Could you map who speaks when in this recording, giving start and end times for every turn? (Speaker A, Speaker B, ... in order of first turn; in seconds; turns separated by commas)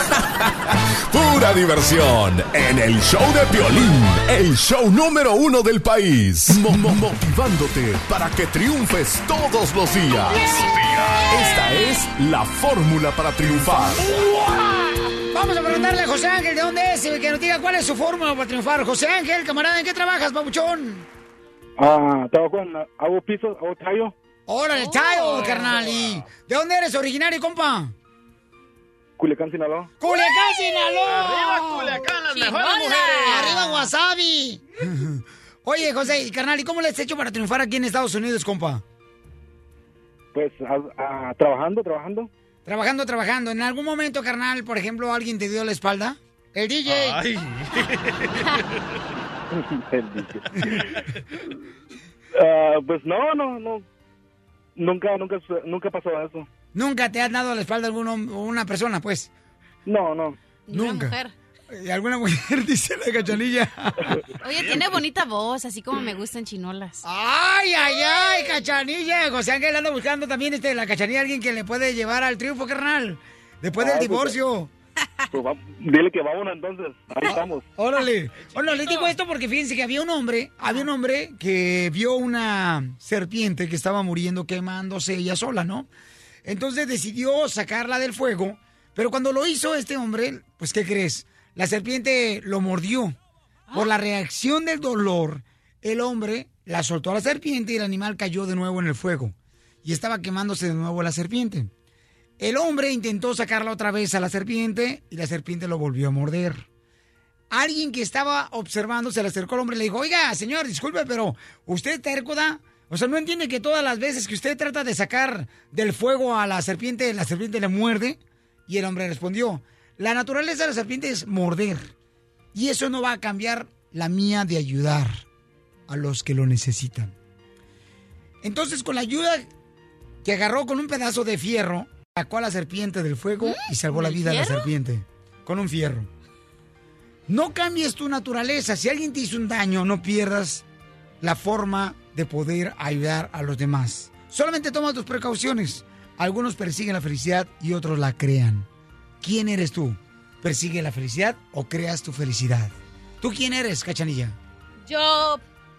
Speaker A: 1.1-14.1, Speaker B: 14.1-14.4, Speaker B: 15.3-21.1, Speaker C: 21.8-24.1, Speaker B: 24.5-27.9, Speaker D: 24.8-25.8, Speaker E: 25.5-26.3, Speaker C: 29.2-29.9, Speaker B: 30.0-32.0, Speaker E: 31.0-33.6, Speaker D: 32.3-33.9, Speaker B: 33.3-38.8, Speaker C: 40.3-42.3, Speaker B: 42.7-47.2, Speaker E: 46.9-48.7, Speaker C: 49.5-50.8, Speaker C: 52.4-53.9, Speaker C: 54.8-56.5, Speaker B: 56.7-59.3, Speaker C: 59.9-60.4, Speaker D: 60.7-61.3, Speaker B: 60.7-61.1, Speaker B: 61.7-64.1, Speaker D: 64.4-67.0, Speaker E: 64.5-64.9, Speaker B: 67.0-74.7, Speaker C: 73.8-74.4, Speaker C: 75.3-77.7, Speaker B: 77.3-85.9, Speaker E: 78.4-79.2, Speaker B: 86.5-93.2, Speaker B: 93.7-101.7, Speaker B: 102.4-106.7, Speaker B: 107.5-121.9, Speaker B: 122.5-125.2, Speaker B: 125.9-127.1, Speaker B: 128.4-129.5, Speaker B: 130.2-136.1, Speaker D: 133.4-134.7, Speaker B: 137.3-140.6, Speaker B: 141.2-148.7, Speaker B: 149.2-154.4, Speaker D: 154.9-155.4